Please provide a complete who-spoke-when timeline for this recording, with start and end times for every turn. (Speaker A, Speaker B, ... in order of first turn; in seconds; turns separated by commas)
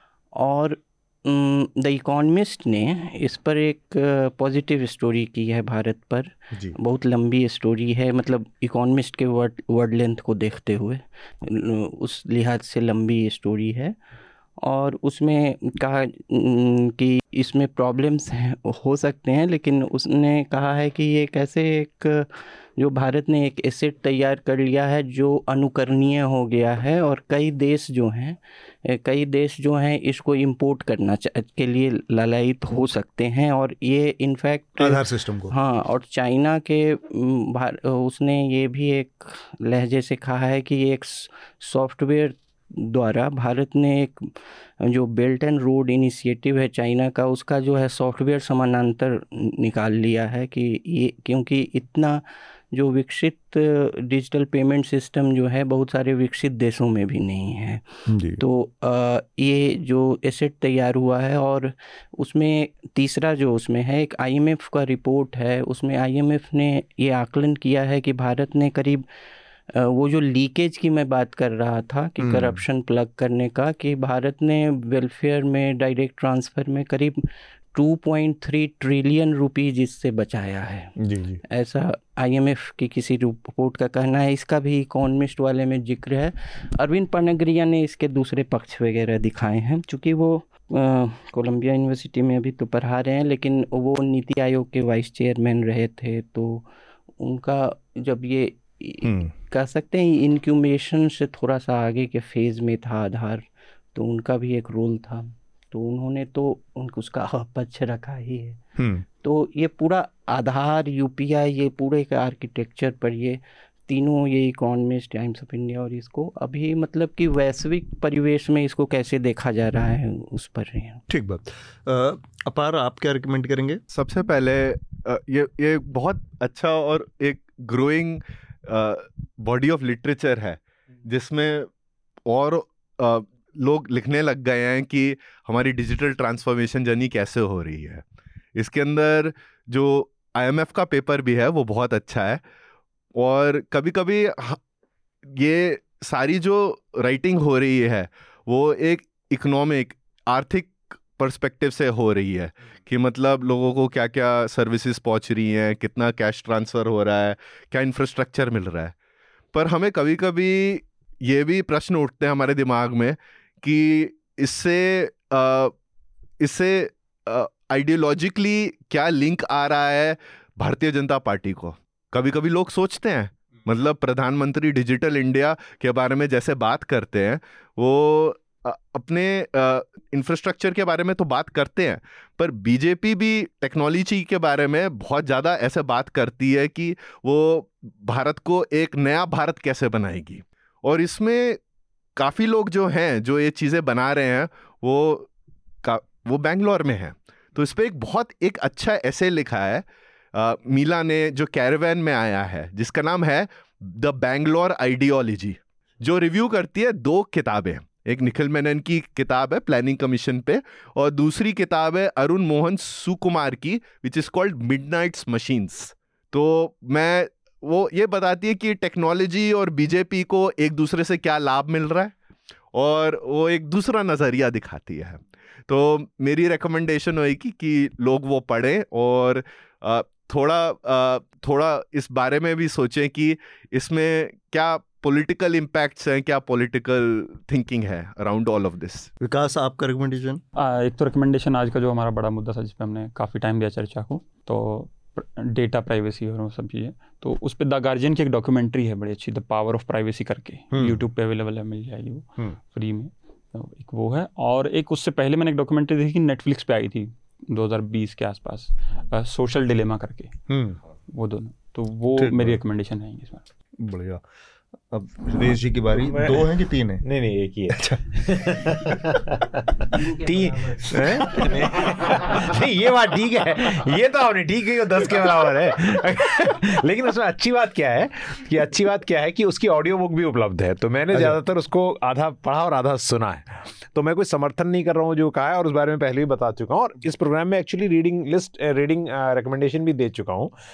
Speaker A: 0.3-14.0, Speaker A: 14.6-57.9, Speaker B: 34.8-35.5, Speaker B: 58.1-58.4, Speaker A: 58.4-69.0, Speaker A: 69.7-77.2, Speaker B: 72.2-72.6, Speaker A: 77.7-81.0, Speaker B: 81.0-81.4, Speaker A: 81.5-96.7, Speaker A: 97.2-108.6, Speaker B: 99.0-99.3, Speaker B: 108.8-109.0, Speaker A: 109.2-121.0, Speaker B: 121.1-123.8, Speaker C: 123.9-131.7, Speaker C: 132.3-138.0, Speaker C: 138.6-142.4, Speaker C: 143.2-144.6, Speaker C: 145.3-158.9, Speaker C: 159.5-165.7, Speaker C: 166.4-191.6, Speaker C: 192.2-195.3, Speaker C: 195.8-222.1, Speaker C: 222.7-239.1, Speaker B: 239.2-240.4, Speaker D: 240.6-260.4, Speaker B: 250.7-251.0, Speaker B: 260.5-260.8, Speaker D: 261.1-263.4, Speaker B: 262.1-262.6, Speaker B: 263.8-264.2, Speaker B: 264.9-267.0, Speaker E: 265.9-290.5, Speaker B: 267.7-269.2, Speaker B: 270.9-271.7, Speaker B: 281.1-281.4